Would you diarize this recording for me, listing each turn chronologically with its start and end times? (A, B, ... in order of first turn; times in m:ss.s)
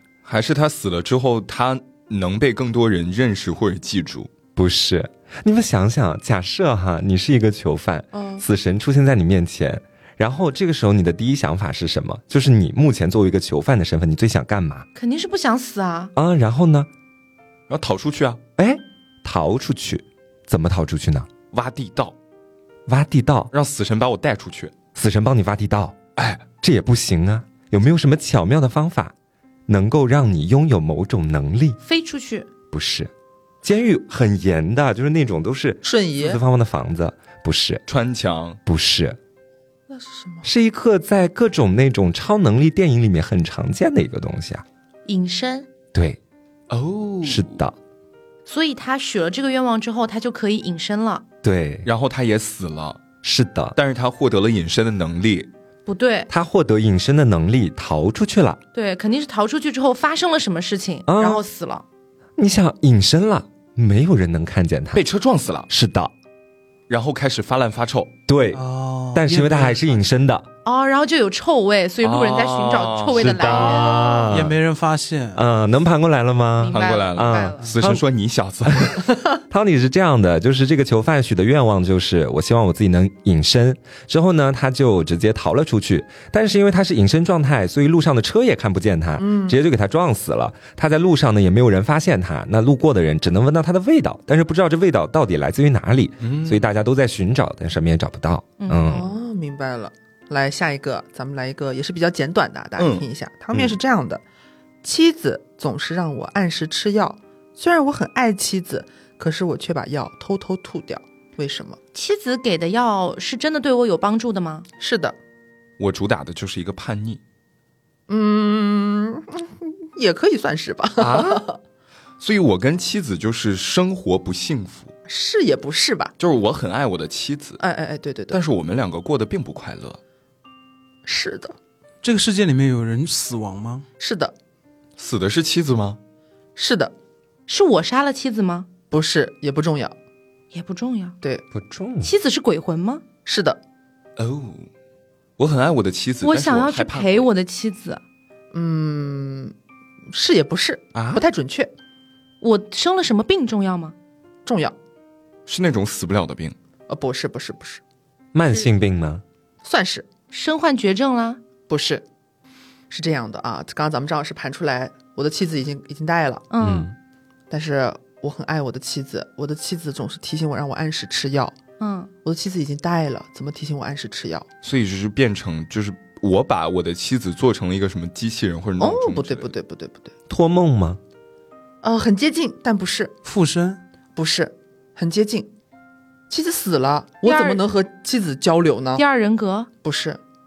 0:00.2-0:04.3 A
0:04.6-0:14.9 B
0:08.1-0:08.4 C
0:15.0-0:16.1 D
0:16.2-0:16.9 B
0:17.7-0:18.4 A
0:18.6-0:21.3 B
0:21.5-0:22.2 A
0:22.9-0:23.5 B
0:23.5-0:24.7 A
0:25.0-0:26.0 B
0:26.2-0:26.4 A
0:26.6-0:29.1 B
0:29.7-0:31.8 B
0:31.8-0:32.5 D
0:32.7-0:33.1 B
0:33.6-0:37.8 B
0:35.8-0:36.4 C
0:37.9-0:38.6 A
0:38.7-0:39.2 B
0:39.9-0:40.5 C
0:40.4-0:44.6 B
0:45.1-0:45.7 D
0:45.9-0:46.2 B
0:46.7-0:47.6 A
0:47.2-0:47.8 B
0:48.5-0:51.2 D
0:51.4-0:51.9 B
0:51.8-0:53.0 A
0:53.2-0:53.8 B
0:53.8-0:55.5 A
0:55.9-0:56.3 D
0:56.3-0:58.6 B
0:58.7-1:01.8 D
1:01.1-1:01.4 B
1:02.4-1:05.0 B
1:04.9-1:05.7 A
1:05.7-1:06.1 B
1:06.9-1:08.1 A
1:08.3-1:10.5 B
1:08.5-1:10.0 E
1:10.6-1:14.3 D
1:12.0-1:13.8 A
1:13.1-1:14.6 B
1:14.3-1:15.4 E
1:15.3-1:18.0 B
1:16.6-1:17.7 D
1:16.7-1:19.0 A
1:18.7-1:19.0 B
1:19.5-1:39.1 B
1:29.2-1:29.6 C
1:36.2-1:36.7 A
1:38.6-1:39.1 D
1:38.9-1:44.2 C
1:42.8-1:43.0 A
1:44.8-1:51.8 C
1:51.9-1:54.7 D
1:54.8-1:55.2 C
1:55.8-1:57.2 A
1:58.1-2:01.6 C
2:01.0-2:01.4 A
2:02.2-2:04.9 A
2:05.1-2:06.1 C
2:06.2-2:07.6 A
2:07.6-2:08.4 C
2:08.3-2:10.0 A
2:11.1-2:11.6 C
2:12.0-2:13.9 E
2:14.0-2:14.3 C
2:15.0-2:16.0 A
2:16.6-2:16.9 C
2:17.5-2:18.7 D
2:18.9-2:20.0 C
2:20.5-2:21.2 D
2:21.5-2:22.1 B
2:22.0-2:23.0 D
2:23.3-2:23.6 C
2:24.2-2:24.7 A
2:25.4-2:27.3 A
2:26.2-2:28.0 D
2:28.5-2:29.5 C
2:30.1-2:31.7 C
2:30.9-2:31.3 A
2:32.4-2:33.9 D
2:34.5-2:34.8 C
2:35.5-2:36.6 A
2:36.9-2:37.8 C
2:38.3-2:39.2 B
2:39.6-2:40.1 C
2:40.3-2:41.4 D
2:41.7-2:42.0 C
2:42.9-2:46.5 C
2:46.5-2:46.9 D
2:46.6-2:47.0 B
2:47.5-2:51.6 C
2:51.8-2:52.1 D
2:52.2-2:54.5 C
2:54.6-2:59.5 A
2:58.8-3:00.1 C
3:00.3-3:01.0 B
3:01.8-3:03.2 C
3:03.2-3:03.8 E
3:04.2-3:05.5 C
3:06.3-3:09.0 C
3:07.2-3:07.6 D
3:09.0-3:09.7 D
3:09.8-3:10.2 C